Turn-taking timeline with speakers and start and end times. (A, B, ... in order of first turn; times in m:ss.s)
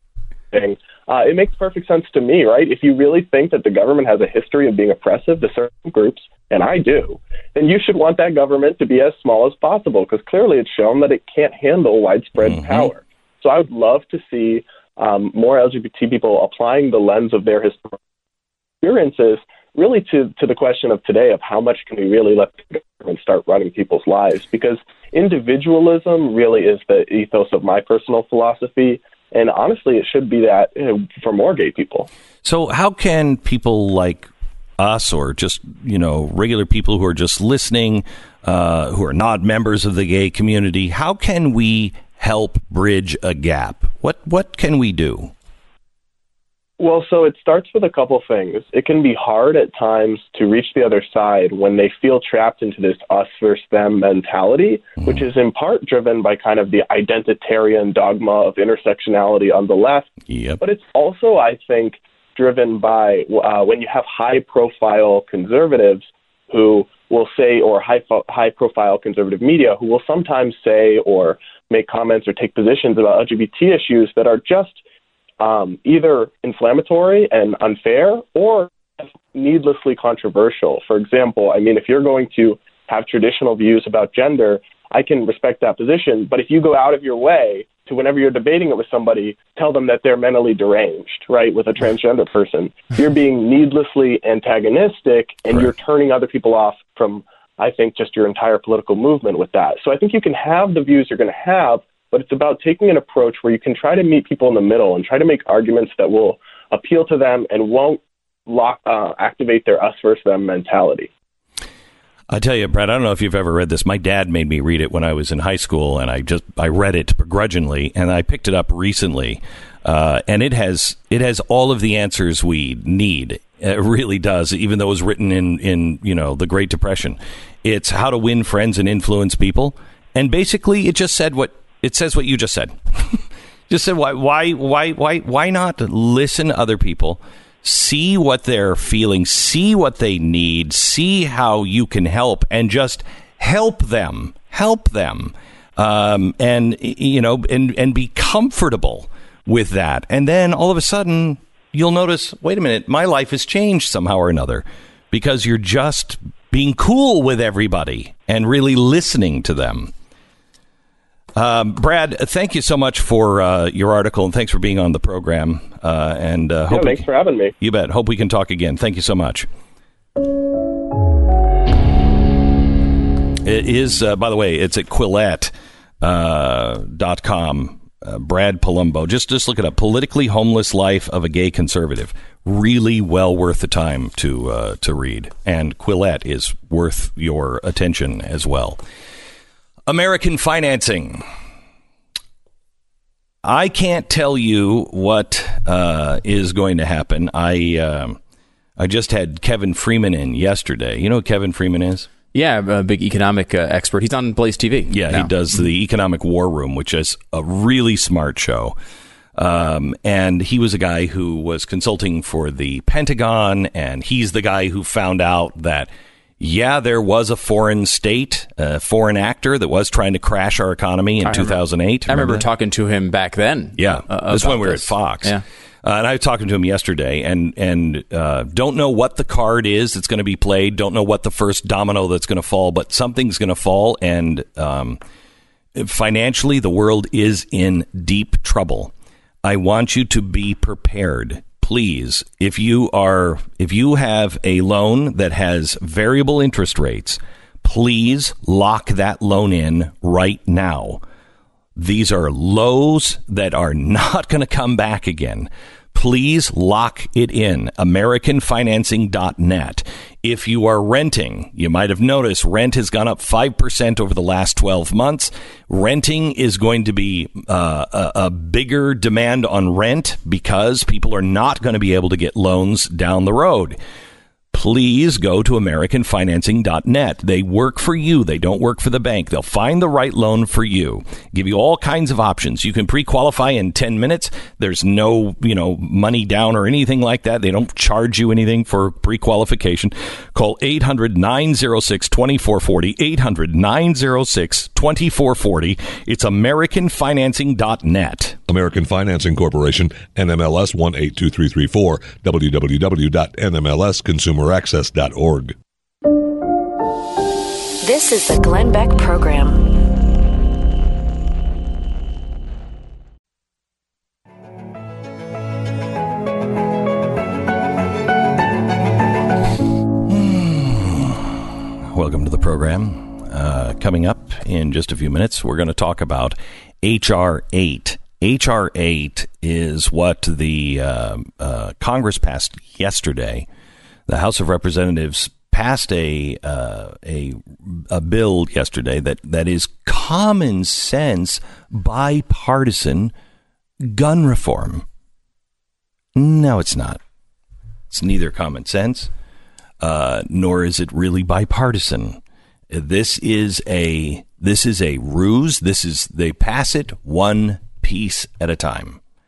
0:00.5-0:18.0 A
0:12.4-0:12.9 B
0:18.8-0:32.1 A
0:32.4-0:45.3 B
0:46.8-1:00.1 A
1:00.3-1:00.6 B
1:00.6-1:14.8 A
1:15.4-1:18.7 A
1:19.3-1:51.1 A
1:52.3-2:39.9 B
2:41.4-2:47.0 B
2:46.7-2:47.5 A
2:47.6-2:49.5 B
2:53.4-3:08.8 B
3:09.9-3:11.2 B
3:13.4-3:18.2 B
3:18.8-3:22.1 B
3:22.3-3:25.3 C
3:24.9-3:28.8 B
3:29.4-3:42.5 B
3:41.2-3:45.4 C
3:43.8-3:55.0 B
3:55.8-3:58.9 B
3:59.4-4:11.0 B
4:11.8-4:33.8 B
4:34.5-4:58.4 B
4:58.5-5:05.6 D
5:07.8-5:09.8 E
5:20.0-5:21.4 B
5:21.9-5:33.5 B
5:34.1-5:43.1 B
5:43.8-5:44.8 B
5:46.2-5:47.0 B
5:47.9-5:49.1 B
5:49.8-5:52.2 B
5:52.7-5:59.0 B